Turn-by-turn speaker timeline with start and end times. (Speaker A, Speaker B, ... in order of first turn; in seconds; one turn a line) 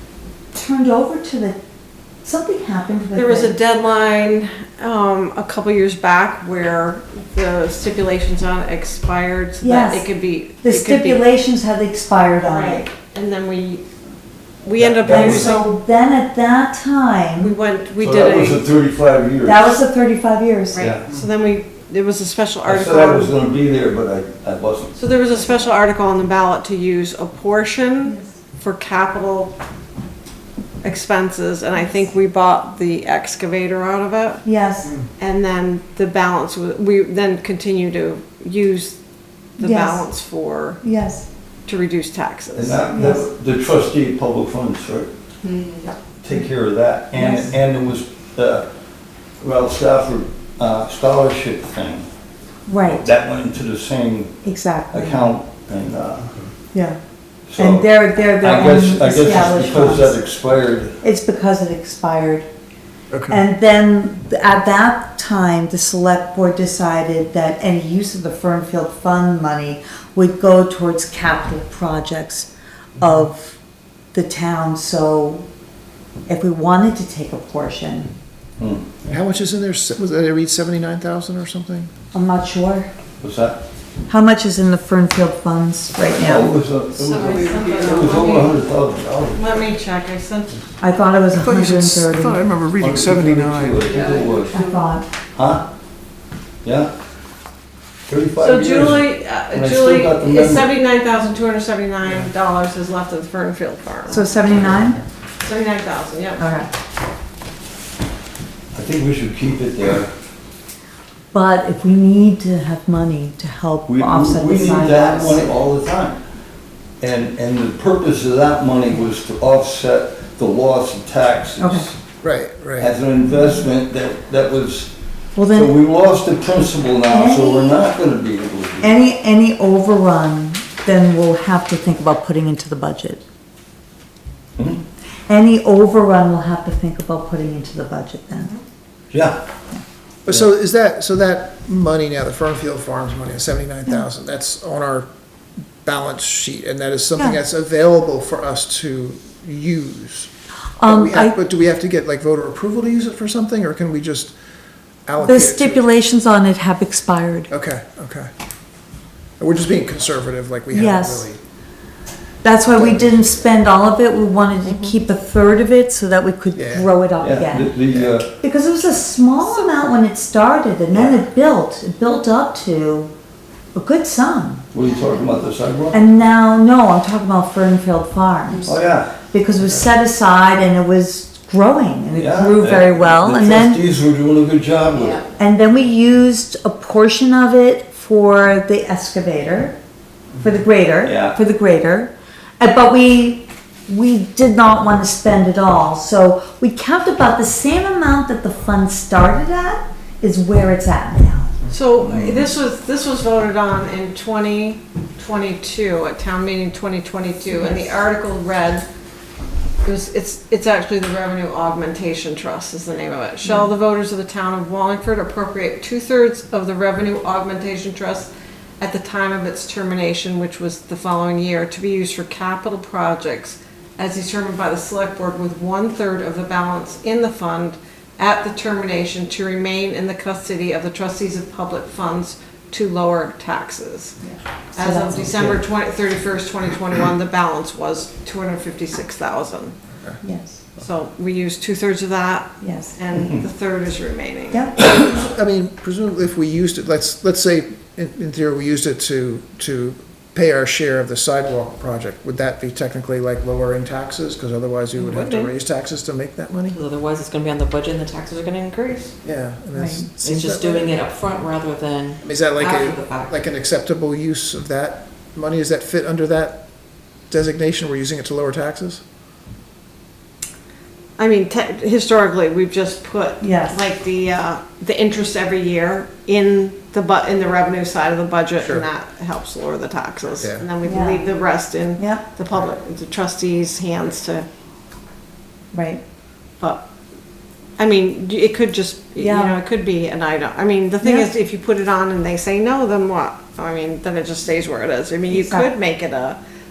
Speaker A: 0.5-1.6
Speaker A: 2.2-3.6
Speaker B: 3.1-11.2
Speaker A: 9.6-10.1
Speaker A: 10.6-12.9
Speaker B: 12.4-13.8
Speaker B: 14.6-15.7
Speaker C: 14.8-15.5
Speaker A: 15.0-17.5
Speaker B: 17.4-18.7
Speaker C: 18.0-19.8
Speaker A: 19.4-20.9
Speaker B: 20.7-23.3
Speaker C: 20.8-21.1
Speaker C: 22.6-25.0
Speaker B: 24.9-29.6
Speaker B: 30.8-34.4
Speaker A: 34.4-35.0
Speaker B: 35.2-39.0
Speaker B: 39.6-40.8
Speaker A: 39.6-40.1
Speaker A: 40.8-41.2
Speaker B: 41.7-43.1
Speaker C: 42.5-45.1
Speaker A: 42.9-43.2
Speaker D: 45.5-45.9
Speaker C: 46.2-48.6
Speaker A: 47.1-47.5
Speaker C: 49.4-52.1
Speaker A: 52.7-53.1
Speaker C: 52.9-54.4
Speaker A: 54.4-55.3
Speaker C: 54.9-56.3
Speaker A: 56.7-57.0
Speaker C: 57.5-61.0
Speaker A: 57.6-60.2
Speaker A: 61.0-62.5
Speaker E: 63.1-63.4
Speaker A: 63.3-73.6
Speaker A: 74.1-75.5
Speaker A: 76.3-78.1
Speaker C: 78.6-78.9
Speaker E: 79.0-81.9
Speaker A: 82.1-82.9
Speaker C: 83.2-83.6
Speaker A: 84.1-86.5
Speaker C: 86.0-89.4
Speaker B: 87.0-88.5
Speaker D: 87.0-88.2
Speaker B: 89.3-90.6
Speaker A: 90.8-92.4
Speaker E: 91.3-94.1
Speaker C: 92.8-94.6
Speaker D: 93.8-94.5
Speaker B: 94.0-94.4
Speaker A: 94.5-95.0
Speaker C: 95.3-95.7
Speaker C: 96.6-96.9
Speaker C: 98.1-100.7
Speaker B: 98.4-104.3
Speaker A: 104.1-105.0
Speaker B: 105.4-106.5
Speaker A: 106.4-106.7
Speaker C: 108.7-110.1
Speaker A: 111.3-115.5
Speaker C: 113.9-116.2
Speaker C: 117.0-122.0
Speaker A: 121.6-121.9
Speaker E: 122.2-122.9
Speaker C: 122.8-124.9
Speaker A: 125.3-125.7
Speaker C: 125.5-129.0
Speaker A: 127.1-127.8
Speaker A: 128.8-133.2
Speaker A: 135.3-138.6
Speaker C: 139.1-139.4
Speaker E: 140.2-145.1
Speaker E: 145.8-150.3
Speaker A: 150.8-151.4
Speaker E: 150.8-154.4
Speaker E: 155.1-155.9
Speaker A: 155.2-157.5
Speaker E: 157.5-158.3
Speaker E: 159.4-161.4
Speaker A: 160.7-161.3
Speaker A: 162.4-167.8
Speaker E: 166.6-166.9
Speaker C: 167.2-168.3
Speaker A: 168.4-173.1
Speaker C: 170.9-171.2
Speaker A: 173.7-174.7
Speaker C: 174.7-176.0
Speaker A: 175.9-178.8
Speaker C: 178.6-179.1
Speaker A: 179.3-183.8
Speaker C: 182.1-185.2
Speaker B: 185.0-185.2
Speaker A: 185.4-189.8
Speaker A: 190.4-201.5
Speaker C: 191.0-191.4
Speaker B: 201.7-208.8
Speaker A: 207.5-207.9
Speaker B: 209.8-234.2
Speaker A: 213.4-213.7
Speaker A: 234.3-235.5
Speaker B: 234.7-239.7
Speaker A: 240.2-240.6
Speaker B: 240.8-244.7
Speaker A: 242.6-243.0
Speaker A: 244.5-244.8
Speaker E: 244.8-256.8
Speaker D: 255.0-255.5
Speaker D: 256.7-259.1
Speaker E: 259.2-261.0
Speaker A: 259.7-260.1
Speaker D: 260.2-263.4
Speaker E: 262.2-266.6
Speaker E: 267.3-269.0
Speaker B: 271.2-284.5
Speaker A: 273.4-273.8
Speaker E: 278.6-278.9
Speaker E: 280.4-280.7
Speaker A: 280.8-281.3
Speaker A: 282.0-282.2
Speaker A: 285.7-286.0
Speaker B: 286.6-286.8
Speaker B: 287.8-296.4
Speaker A: 289.2-289.6
Speaker A: 291.0-291.3
Speaker A: 295.3-295.7